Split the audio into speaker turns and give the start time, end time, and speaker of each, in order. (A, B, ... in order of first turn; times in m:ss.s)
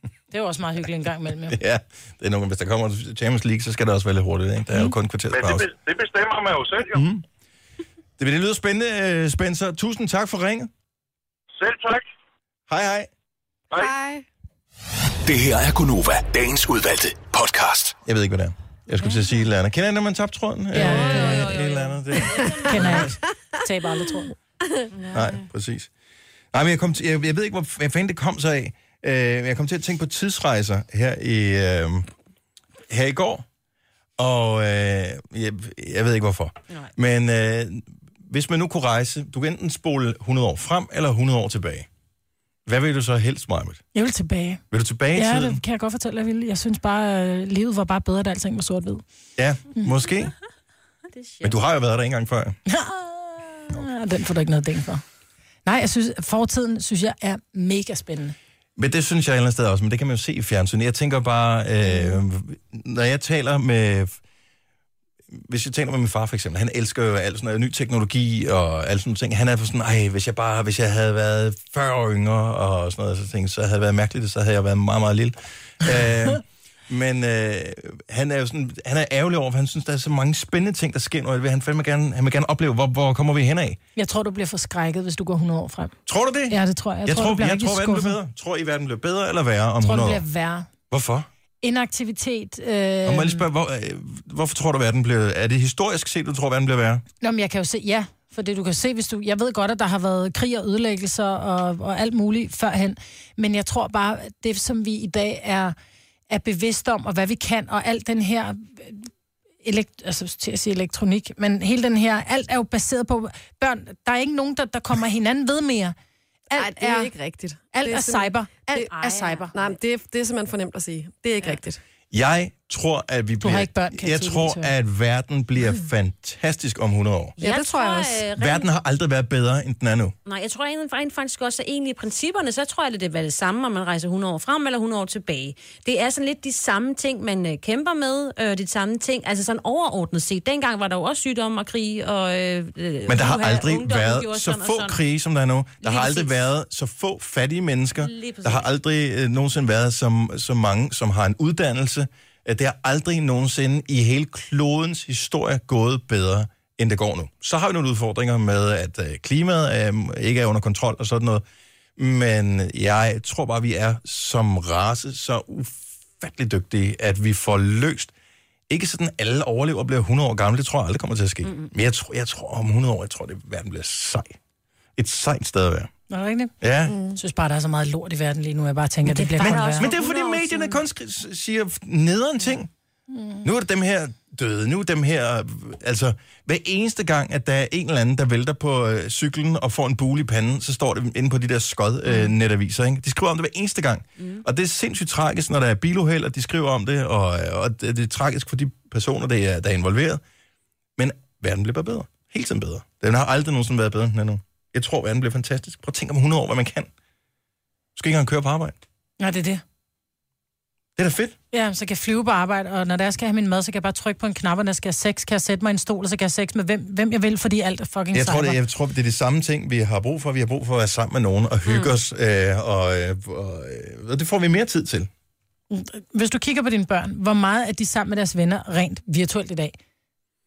0:00.3-0:01.6 A
0:01.5-0:05.7 B
0:05.3-0:07.0 C
0:07.0-0:07.2 B
0:08.2-0:10.7 B
0:11.6-0:12.0 C
0:12.7-0:13.1 B
0:13.8-0:14.2 D
0:15.3-0:18.0 E
0:18.0-0:23.2 B
0:19.0-0:19.3 F
0:20.7-0:21.5 A
0:20.8-0:23.0 F
0:22.4-0:22.7 D
0:22.7-0:24.3 A
0:24.9-0:25.5 F
0:25.1-0:25.9 B
0:26.5-0:32.1 B
0:32.9-0:33.4 B
0:34.2-0:41.9 B
0:42.7-0:43.8 B
0:43.9-0:44.6 A
0:44.7-0:45.6 B
0:45.2-0:49.0 A
0:49.4-0:50.3 B
0:51.1-0:51.6 F
0:51.4-0:52.6 B
0:52.7-0:55.0 A
0:55.6-0:58.4 A
0:58.8-1:04.2 B
1:05.3-1:23.8 B
1:24.0-1:26.0 A
1:26.1-1:30.2 B
1:26.5-1:28.2 A
1:29.8-1:30.7 A
1:30.9-1:31.3 B
1:31.6-1:33.5 A
1:33.1-1:37.0 B
1:37.2-1:45.8 A
1:46.3-1:49.1 A
1:49.6-1:56.0 A
1:56.5-1:57.1 A
1:56.6-1:58.9 D
1:57.7-1:59.5 A
1:58.9-1:59.8 F
1:59.5-2:01.8 D
2:02.1-2:07.4 B
2:03.4-2:04.7 A
2:07.4-2:08.7 F
2:07.4-2:08.2 D
2:08.4-2:10.1 B
2:10.3-2:25.0 F
2:23.1-2:41.4 B
2:25.8-2:26.4 F
2:28.0-2:28.7 F
2:42.0-2:48.1 B
2:48.7-2:54.4 B
2:51.4-2:51.7 F
2:55.0-2:55.9 B
2:56.1-2:56.5 A
2:56.6-2:57.0 B
2:56.9-2:57.2 D
2:57.2-2:59.9 A
2:59.0-3:00.8 F
2:59.4-3:02.7 B
3:03.1-3:03.4 A
3:03.4-3:20.2 B
3:14.2-3:14.4 F
3:21.0-3:26.9 B
3:28.0-3:28.8 B
3:29.2-3:29.6 A
3:31.0-3:31.4 B
3:31.5-3:38.6 A
3:38.1-3:45.1 B
3:41.7-3:41.9 F
3:45.7-3:49.7 A